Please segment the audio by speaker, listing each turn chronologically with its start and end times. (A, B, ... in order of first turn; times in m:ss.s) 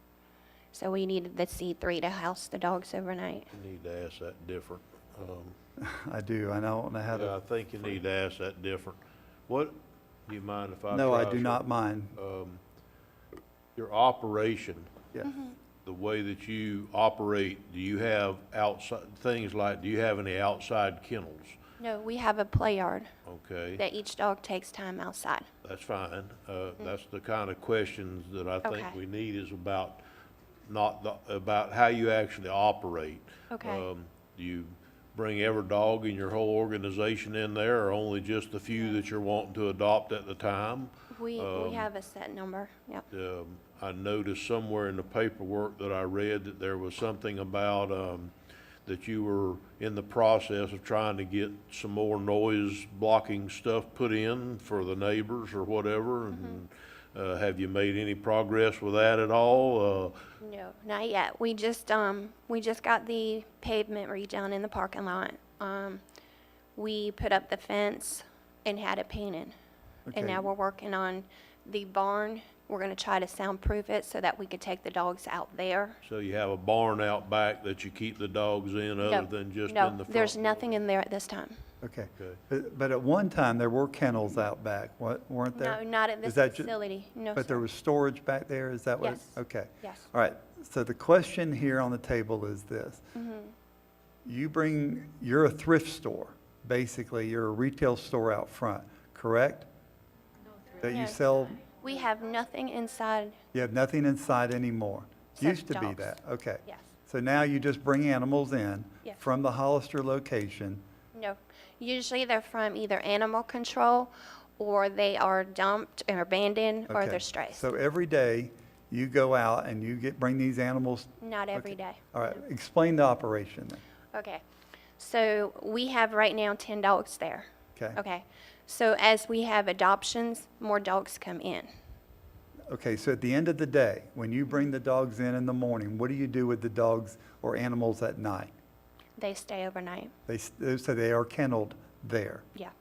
0:00.7-0:03.5 A
0:03.5-0:05.6 B
0:05.8-0:07.4 C
0:07.1-0:09.8 B
0:10.3-0:11.6 B
0:10.9-0:12.2 C
0:12.2-0:12.6 B
0:13.8-0:14.9 B
0:15.2-0:15.6 A
0:15.8-0:21.6 B
0:21.8-0:23.1 A
0:23.2-0:23.8 B
0:23.8-0:25.5 A
0:25.6-0:30.0 B
0:28.6-0:28.9 A
0:30.7-0:41.9 B
0:33.5-0:33.8 A
0:41.1-0:43.0 A
0:43.1-0:48.3 B
0:48.8-1:00.2 B
0:56.3-0:56.6 A
1:00.4-1:06.0 A
1:06.8-1:09.5 A
1:10.1-1:10.5 C
1:10.1-1:16.0 A
1:16.0-1:20.8 B
1:19.0-1:21.6 A
1:21.8-1:26.7 C
1:22.2-1:22.4 B
1:25.5-1:27.6 A
1:27.3-1:33.0 C
1:29.0-1:30.1 A
1:33.1-1:33.5 A
1:34.2-1:39.7 C
1:40.8-1:41.6 C
1:40.8-1:41.2 A
1:41.7-1:43.4 A
1:43.5-1:50.8 C
1:45.4-1:46.9 A
1:51.1-1:57.7 A
1:56.9-2:03.8 C
2:01.2-2:02.0 A
2:04.1-2:04.4 A
2:05.0-2:11.7 A
2:12.7-2:18.5 C
2:19.2-2:20.1 A
2:20.3-2:22.4 C